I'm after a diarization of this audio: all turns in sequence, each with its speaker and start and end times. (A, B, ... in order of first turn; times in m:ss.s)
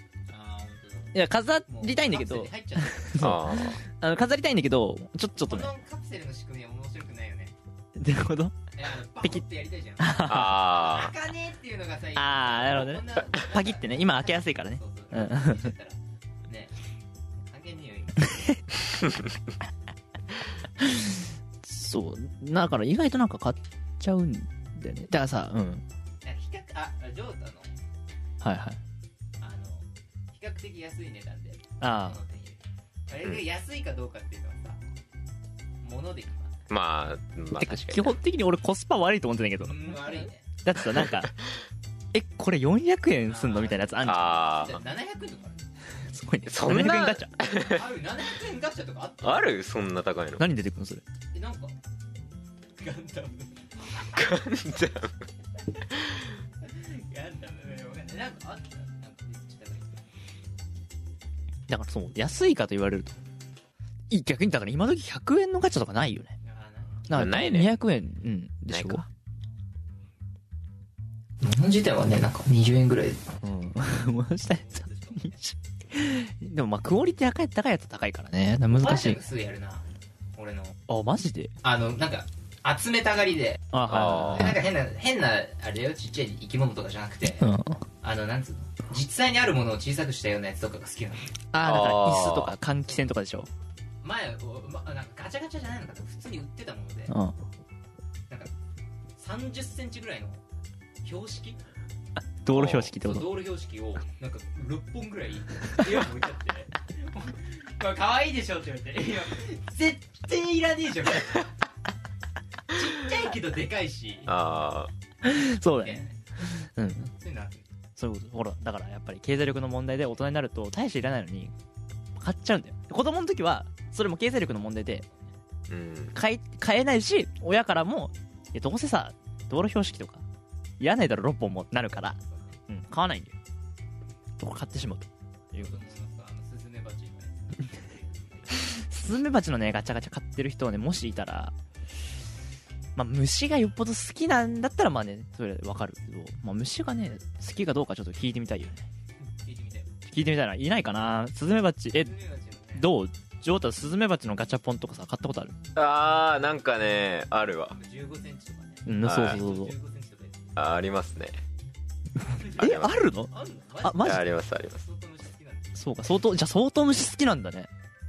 0:00.3-0:01.1 A
0:01.1-0:05.7 B
0:01.7-0:03.4 A
0:03.2-0:03.8 C
0:05.4-0:07.5 A
0:08.0-0:08.6 B
0:08.8-0:16.7 A
0:10.0-0:10.6 B
0:10.2-0:11.1 C
0:12.2-0:15.7 B
0:17.4-0:18.4 A
0:20.8-0:25.8 B
0:26.2-0:27.7 A
0:28.4-0:28.8 B
0:29.4-0:34.8 A
0:31.8-0:32.2 B
0:35.8-0:36.7 A
0:36.7-0:38.2 C
0:37.5-0:41.3 B
0:39.6-0:40.5 A
0:42.1-0:44.2 B
0:43.3-0:45.7 A
0:44.0-0:44.8 C
0:46.1-0:47.3 B
0:46.5-0:47.8 C
0:47.6-0:49.6 A
0:49.2-0:50.4 C
0:50.4-0:51.0 B
0:51.3-0:51.7 A
0:52.8-0:54.3 A
0:54.1-0:55.3 C
0:56.6-1:00.1 A
1:01.7-1:03.2 B
1:04.1-1:06.3 B
1:06.4-1:07.1 A
1:07.1-1:09.0 B
1:07.1-1:07.8 C
1:08.7-1:09.1 C
1:11.4-1:13.4 A
1:13.4-1:19.2 B
1:14.4-1:15.5 A
1:18.7-1:20.8 A
1:20.9-1:21.5 B
1:21.6-1:27.5 A
1:23.7-1:24.6 B
1:23.9-1:24.6 C
1:27.3-1:27.8 B
1:28.0-1:31.3 A
1:31.5-1:33.5 B
1:31.6-1:32.5 C
1:34.0-1:37.1 A
1:37.1-1:37.4 B
1:39.2-1:40.4 A
1:41.0-1:41.6 A
1:42.4-1:43.4 B
1:42.5-1:42.9 C
1:43.0-1:51.5 A
1:52.7-1:54.3 A
1:54.3-1:54.9 C
1:55.2-1:57.1 B
1:55.7-1:56.2 A
1:57.2-1:57.7 A
1:58.0-2:01.5 B
2:02.2-2:05.0 B
2:05.7-2:06.1 C
2:06.1-2:10.2 B
2:10.8-2:13.3 B
2:12.3-2:12.6 A
2:14.4-2:15.8 B
2:15.6-2:18.6 A
2:18.6-2:21.5 B
2:23.0-2:28.8 B
2:29.4-2:30.0 A
2:30.0-2:32.1 B
2:31.9-2:32.9 A
2:32.7-2:35.6 B
2:35.8-2:37.8 C
2:37.7-2:40.5 A
2:38.8-2:39.7 B
2:39.0-2:39.4 C
2:40.6-2:41.4 C
2:42.3-2:45.9 A
2:42.6-2:43.3 B
2:42.6-2:43.0 C
2:43.8-2:44.2 B
2:44.0-2:44.8 C
2:45.8-2:47.7 B